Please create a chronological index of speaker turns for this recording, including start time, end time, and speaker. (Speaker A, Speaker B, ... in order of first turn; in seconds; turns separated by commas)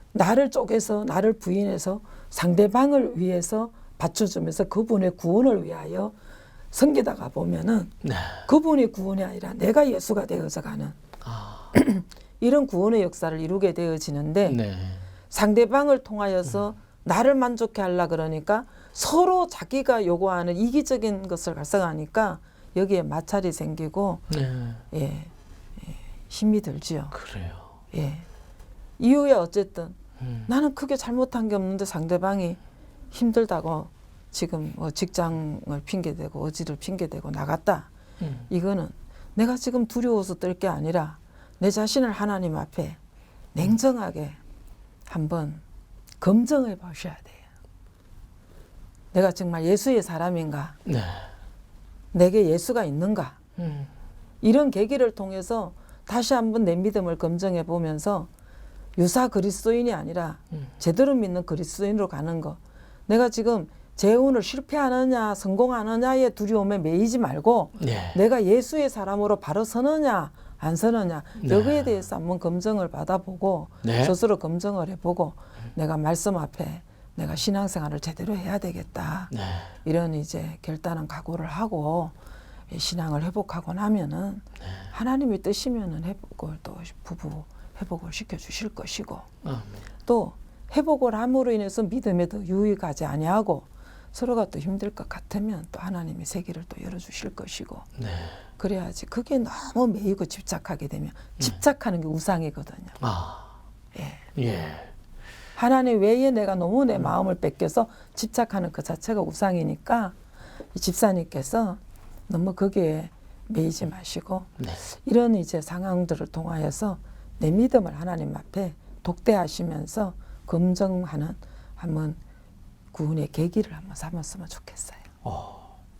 Speaker A: 0.1-6.1, Speaker A: 6.7-7.9, Speaker B: 8.0-8.5, Speaker A: 8.4-11.0, Speaker B: 11.2-11.7, Speaker A: 11.7-14.6, Speaker B: 14.4-15.0, Speaker A: 15.3-24.3, Speaker B: 24.3-24.8, Speaker A: 24.9-27.2, Speaker B: 27.1-27.7, Speaker A: 27.9-28.2, Speaker A: 29.0-32.6, Speaker B: 30.2-30.5, Speaker A: 33.1-37.9, Speaker B: 38.2-38.5, Speaker A: 38.5-43.0, Speaker A: 43.5-44.4, Speaker A: 45.1-45.6, Speaker A: 46.2-47.4, Speaker A: 49.1-50.8, Speaker B: 50.9-51.3, Speaker A: 52.1-53.4, Speaker B: 53.6-53.9, Speaker A: 54.4-58.3, Speaker A: 59.0-79.3, Speaker B: 67.8-68.2, Speaker B: 71.4-71.9, Speaker B: 73.8-74.1, Speaker B: 79.3-79.7, Speaker A: 79.8-82.1, Speaker A: 82.7-89.3, Speaker B: 89.4-89.8, Speaker A: 90.0-97.9, Speaker B: 98.0-98.4, Speaker A: 98.6-103.0, Speaker B: 103.0-103.5, Speaker A: 103.9-104.2, Speaker B: 104.3-104.9, Speaker A: 105.5-110.1, Speaker A: 110.7-122.2, Speaker A: 122.9-125.0, Speaker B: 125.2-125.8